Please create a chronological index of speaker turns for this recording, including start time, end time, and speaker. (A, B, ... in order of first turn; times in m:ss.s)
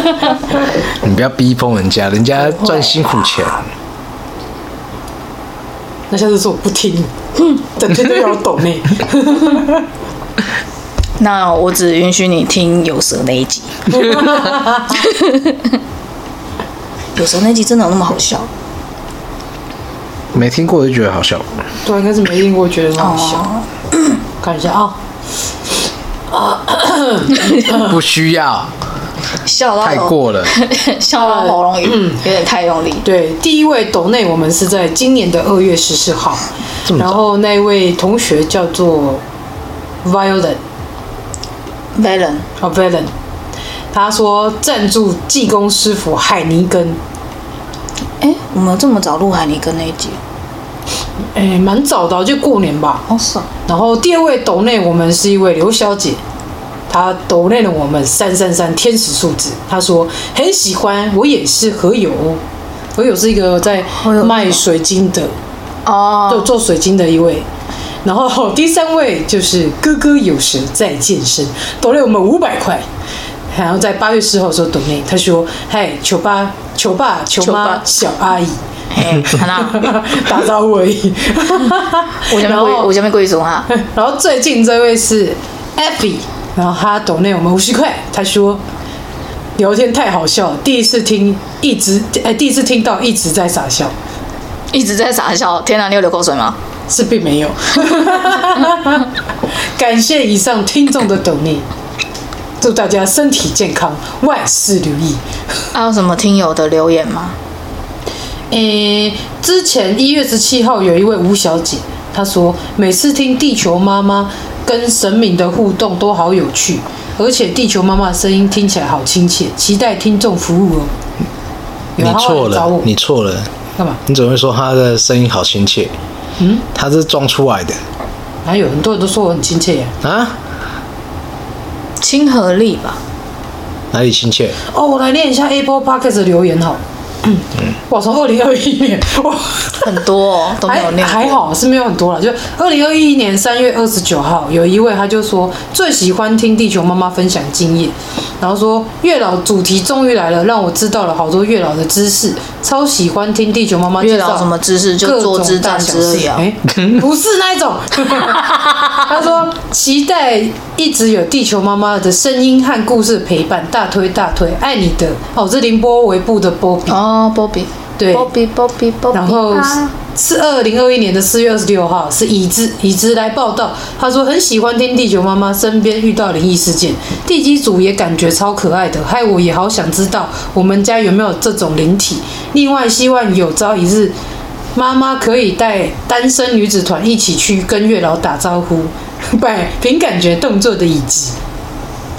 0:01.0-0:03.6 A
0:06.1-0:07.1 B
0:07.8-0:09.8 B
0:11.2-0:14.3 C
0:13.9-0:15.1 B
0:14.9-0:15.8 C
0:17.2-0:18.5 C
0:20.3-0:21.5 A
0:21.8-0:23.4 B
0:23.0-0:24.1 C
0:24.4-0:25.0 B
0:26.3-0:28.0 B
0:27.7-0:28.7 A
0:29.4-0:33.0 C
0:29.8-0:30.5 A
0:31.2-0:32.2 B
0:33.0-0:39.2 B
0:36.9-0:37.2 A
0:40.0-0:40.6 B
0:42.0-0:42.5 C
0:42.6-0:43.1 B
0:43.9-0:47.0 B
0:48.2-0:50.2 C
0:51.3-0:53.0 B
0:53.1-0:53.5 C
0:53.7-0:56.2 B
0:56.9-1:02.4 B
1:03.0-1:05.3 B
1:03.9-1:04.6 C
1:05.9-1:06.5 C
1:06.3-1:07.5 B
1:08.0-1:12.9 B
1:13.5-1:18.6 B
1:17.4-1:17.8 C
1:18.9-1:19.9 C
1:19.4-1:22.9 B
1:22.2-1:23.7 C
1:23.7-1:28.6 B
1:29.6-1:33.9 B
1:34.7-1:36.6 C
1:36.9-1:39.1 B
1:39.8-1:41.7 B
1:42.6-1:45.2 B
1:45.7-1:47.4 C
1:48.5-2:00.9 B
2:02.0-2:02.9 B
2:02.0-2:03.5 A
2:04.1-2:05.9 A
2:06.4-2:06.6 B
2:06.7-2:07.8 A
2:08.4-2:09.9 B
2:10.0-2:10.4 A
2:12.0-2:13.0 C
2:13.9-2:14.6 A
2:14.7-2:20.0 B
2:19.8-2:21.4 C
2:20.7-2:34.5 B
2:34.0-2:36.5 C
2:35.0-2:47.0 B
2:46.9-2:49.9 C
2:48.0-2:48.3 B
2:49.1-3:04.1 B
3:04.8-3:11.4 B